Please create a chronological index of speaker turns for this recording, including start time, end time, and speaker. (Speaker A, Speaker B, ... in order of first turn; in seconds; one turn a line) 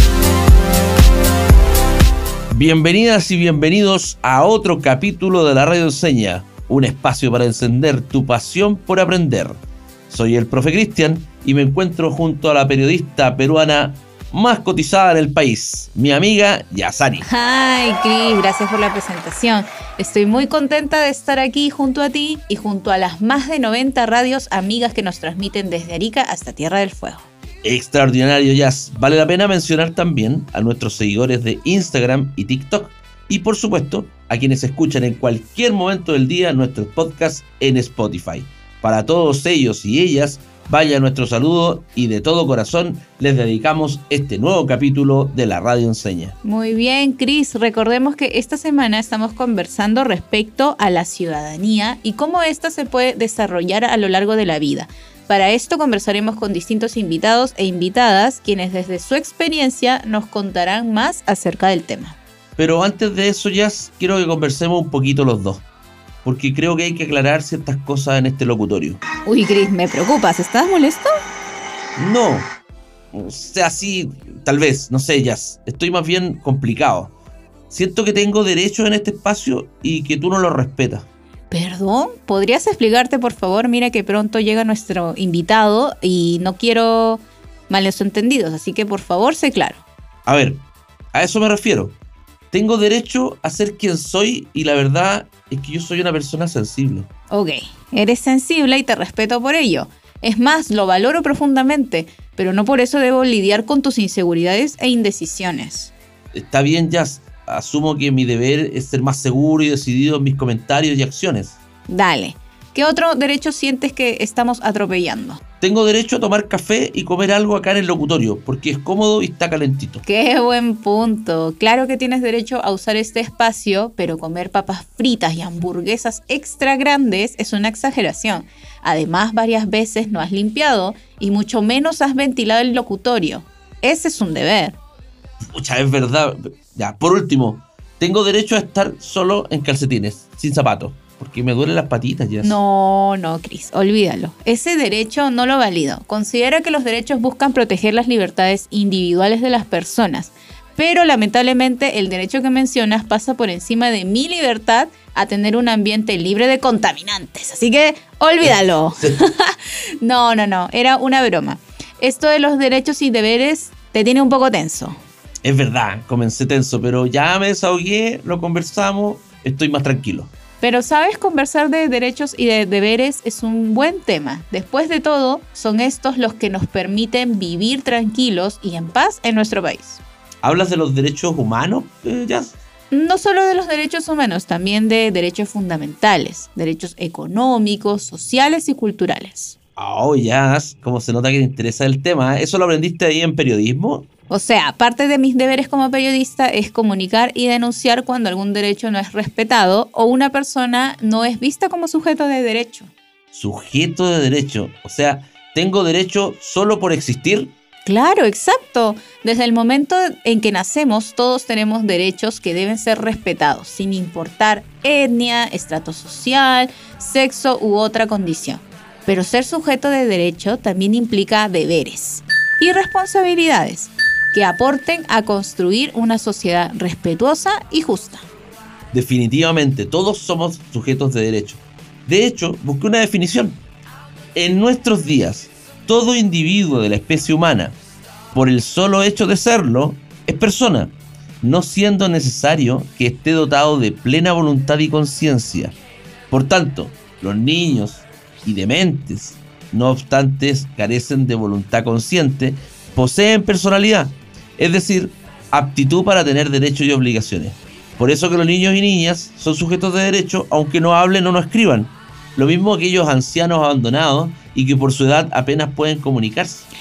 Speaker A: 2.5-17.3
Speaker B: 17.2-27.3
Speaker A: 27.6-46.4
Speaker B: 46.4-62.2
Speaker A: 62.6-65.6
Speaker A: 66.2-69.0
Speaker B: 69.2-71.1
Speaker A: 72.0-72.5
Speaker A: 73.1-77.1
Speaker A: 77.7-81.1
Speaker B: 81.5-89.8
Speaker A: 90.2-90.6
Speaker A: 91.1-92.0
Speaker A: 92.5-97.1
Speaker B: 97.3-105.9
Speaker A: 106.3-111.6
Speaker B: 111.9-115.4
Speaker A: 115.6-120.0
Speaker B: 120.0-134.8
Speaker A: 135.5-142.6
Speaker B: 142.4-165.0
Speaker A: 165.4-170.3
Speaker B: 170.6-180.0
Speaker A: 180.4-182.6
Speaker B: 182.9-189.5
Speaker A: 189.8-194.1
Speaker B: 194.3-202.9
Speaker A: 203.3-207.5
Speaker B: 207.8-228.2
Speaker A: 228.9-233.6
Speaker A: 234.3-237.8
Speaker A: 238.3-245.8
Speaker A: 246.3-266.7